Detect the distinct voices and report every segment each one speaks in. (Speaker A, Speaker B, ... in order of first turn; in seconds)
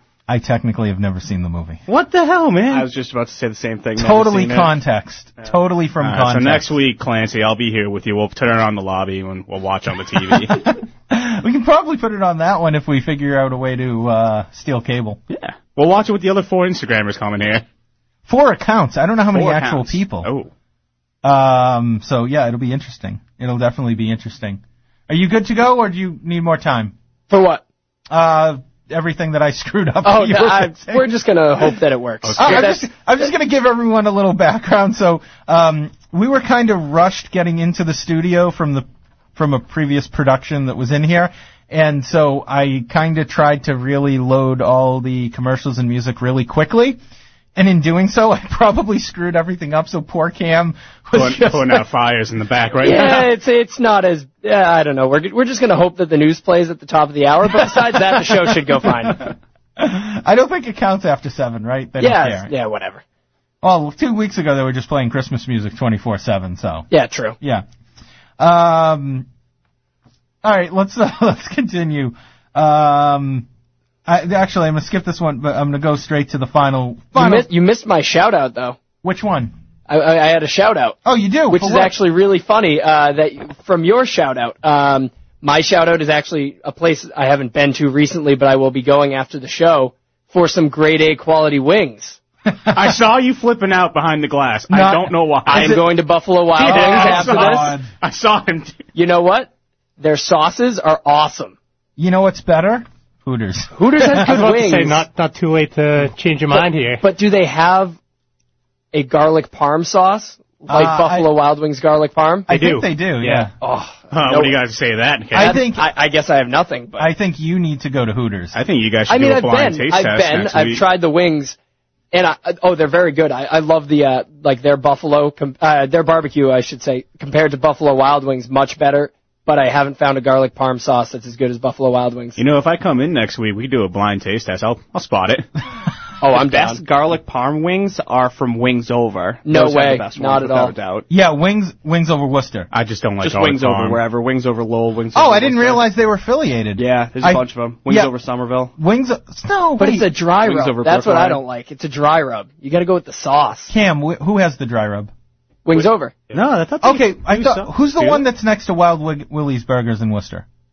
Speaker A: 0.3-1.8, 4.0-6.7, 10.3-15.2, 18.2-20.3, 21.2-26.9, 28.1-31.1, 32.4-47.0, 47.5-51.8, 59.8-62.5, 63.6-66.9, 67.4-67.6, 68.4-69.3, 70.4-73.5, 74.0-77.5, 79.0-79.5, 81.0-81.9, 94.7-95.8, 96.6-97.9, 102.0-104.4, 110.7-111.3, 112.5-113.5, 115.3-115.9, 117.0-118.6, 141.1-142.7, 145.1-148.1, 148.8-150.1, 153.7-155.1, 156.8-160.4
Speaker B: 1.9-2.9, 6.0-10.8, 15.3-17.6, 19.3-20.5, 32.2-32.7, 51.1-53.3, 92.7-95.8, 96.5-98.8, 114.1-115.6, 118.5-120.8, 132.4-135.4, 142.7-144.0, 155.7-158.2
Speaker C: 2.7-4.7, 136.3-141.1, 143.2-145.8, 146.8-148.7, 150.4-151.4
Speaker D: 27.3-27.6, 30.0-32.9, 52.8-59.3, 62.0-63.0, 66.9-67.4, 77.1-78.8, 79.9-81.0, 81.5-92.2, 95.5-97.8, 98.9-101.5, 103.7-105.0, 106.5-108.0, 108.9-112.7, 113.2-114.6, 115.3-117.1, 119.1-121.5, 122.1-132.4, 136.2-136.8, 139.4-140.7, 149.8-153.7, 155.7-156.1
Speaker E: 104.2-107.0